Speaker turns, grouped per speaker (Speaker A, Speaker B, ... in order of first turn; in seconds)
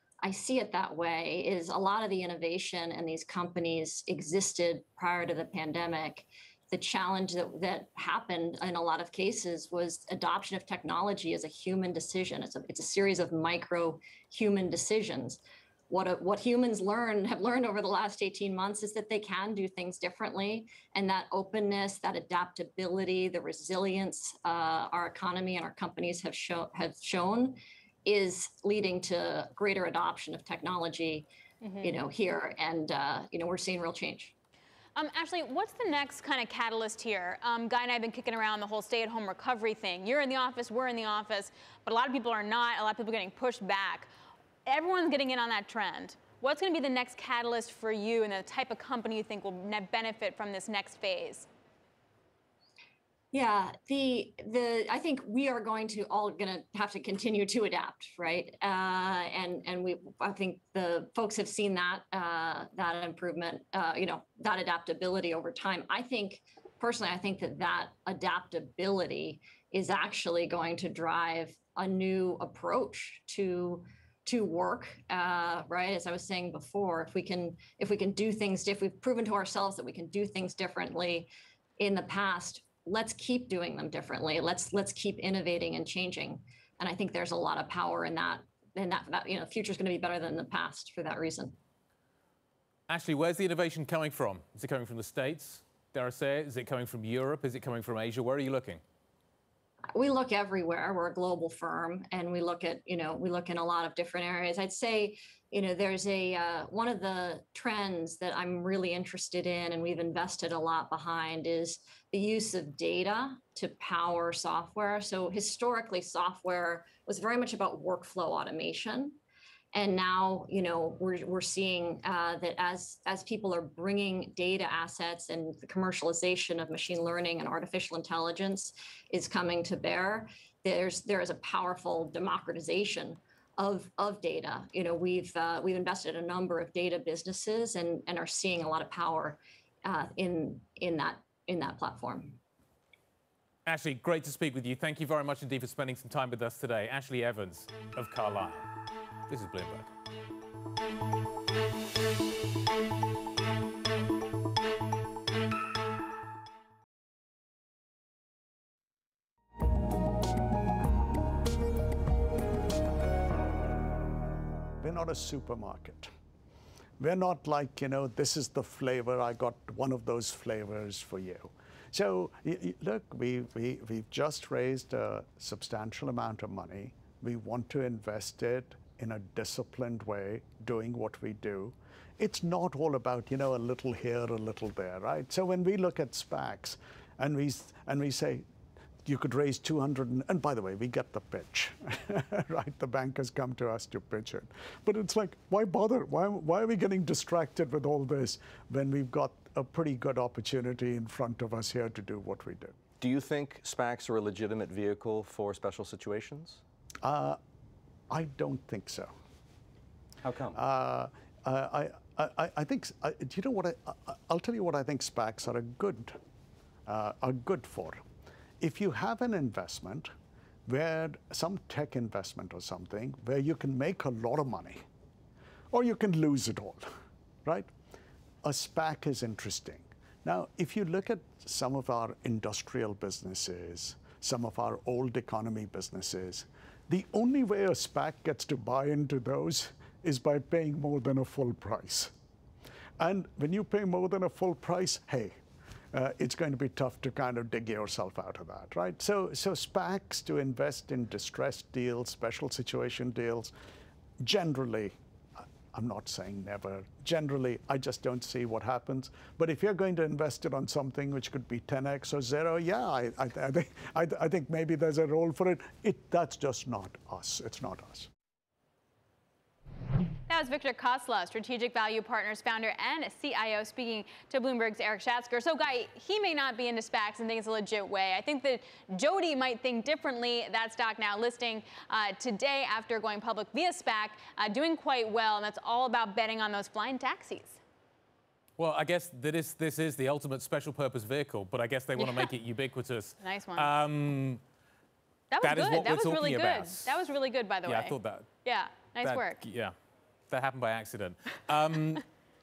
Speaker A: 0.2-31.3, 31.8-34.3, 53.3-91.5, 99.9-119.2, 119.7-142.4
Speaker B: 35.0-44.1, 44.7-51.5, 270.3-287.6, 292.0-292.3, 293.2-293.7, 295.3-299.4
Speaker C: 92.9-98.8, 143.7-148.7, 149.3-149.9, 288.6-294.4, 295.4-297.0, 297.7-298.3, 299.0-299.7, 300.3-302.0
Speaker D: 164.8-166.1, 167.0-188.5, 189.0-202.8, 207.0-207.4, 208.1-209.1, 210.5-216.2, 216.9-218.0, 218.6-220.1, 220.7-224.8, 225.7-226.9, 227.4-227.7, 228.4-242.1, 243.0-245.4, 245.9-253.5, 254.2-268.1
Speaker E: 203.0-206.6, 210.2-210.6